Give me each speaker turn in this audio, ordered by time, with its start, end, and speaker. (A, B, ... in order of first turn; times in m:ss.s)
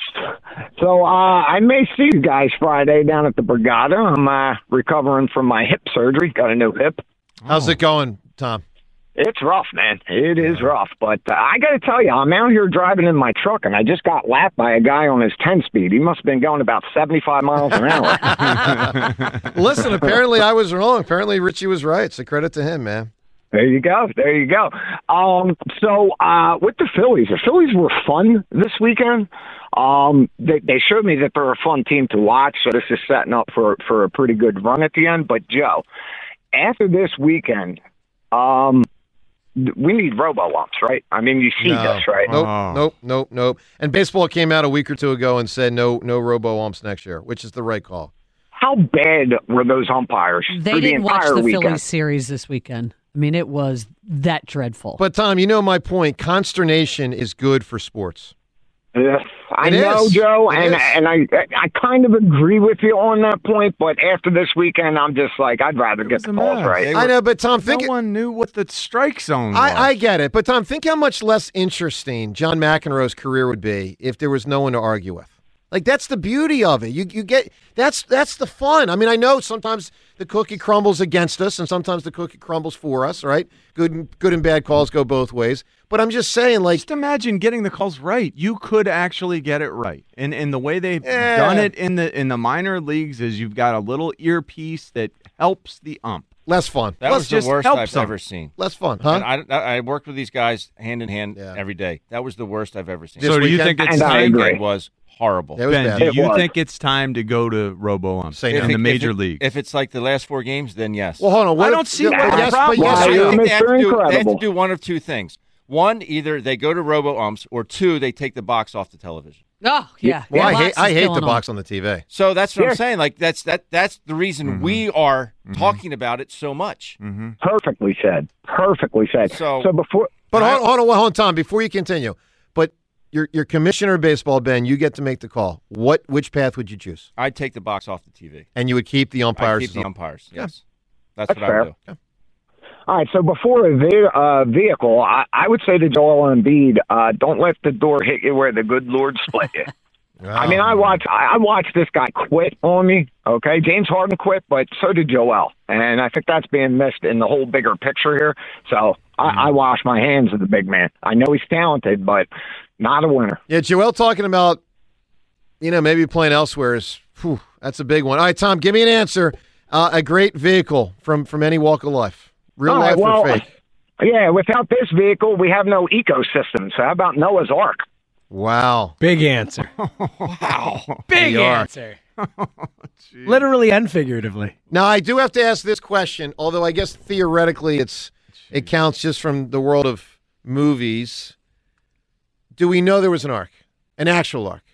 0:00.2-0:07.0 A
0:07.4-0:07.8 B
0:07.5-0:08.6 C
0:09.2-0:18.9 A
0:10.4-0:10.7 C
0:17.7-0:18.7 C
0:19.5-0:23.1 C
0:23.5-0:35.8 A
0:36.5-0:37.8 A
0:38.3-0:38.8 A
0:39.6-0:42.3 A
0:41.6-0:48.1 C
0:42.2-0:42.8 B
0:48.5-0:51.8 A
0:50.5-0:55.0 D
0:55.0-0:58.3 C
0:58.9-1:06.9 A
0:59.6-1:01.0 C
1:06.0-1:09.9 B
1:06.9-1:07.9 C
1:09.5-1:26.8 C
1:26.7-1:36.3 B
1:31.0-1:31.7 C
1:36.4-1:37.5 C
1:37.0-1:43.4 E
1:37.4-1:38.1 B
1:38.6-1:39.2 C
1:43.2-1:44.0 C
1:43.2-1:44.5 B
1:43.8-1:44.6 A
1:44.0-1:45.6 E
1:45.6-1:46.1 C
1:45.7-1:49.4 B
1:46.0-1:46.5 A
1:48.3-1:48.8 C
1:48.5-1:51.3 E
1:51.2-1:53.4 C
1:51.6-1:52.8 B
1:52.0-1:54.4 A
1:52.8-1:59.4 E
1:59.6-2:01.4 D
2:00.3-2:02.0 C
2:02.1-2:07.0 E
2:04.5-2:04.8 B
2:05.5-2:05.8 B
2:07.0-2:07.4 B
2:07.4-2:10.2 A
2:09.2-2:09.7 E
2:10.3-2:17.1 C
2:10.3-2:10.6 E
2:17.2-2:18.5 E
2:18.5-2:20.5 C
2:19.4-2:20.6 E
2:21.2-2:21.7 E
2:21.3-2:21.7 A
2:22.9-2:29.7 A
2:30.2-2:31.0 C
2:30.4-2:42.3 A
2:42.8-2:43.4 A
2:43.5-2:44.6 C
2:45.6-2:53.4 C
2:52.7-2:53.4 A
2:54.0-2:57.8 A
2:58.3-2:59.0 C
2:59.0-2:59.7 F
2:59.8-3:00.4 B
3:00.2-3:00.9 E
3:01.1-3:02.0 F
3:01.2-3:01.7 C
3:02.2-3:03.5 B
3:03.2-3:04.5 F
3:04.7-3:11.3 C
3:08.4-3:08.7 B
3:12.6-3:14.6 C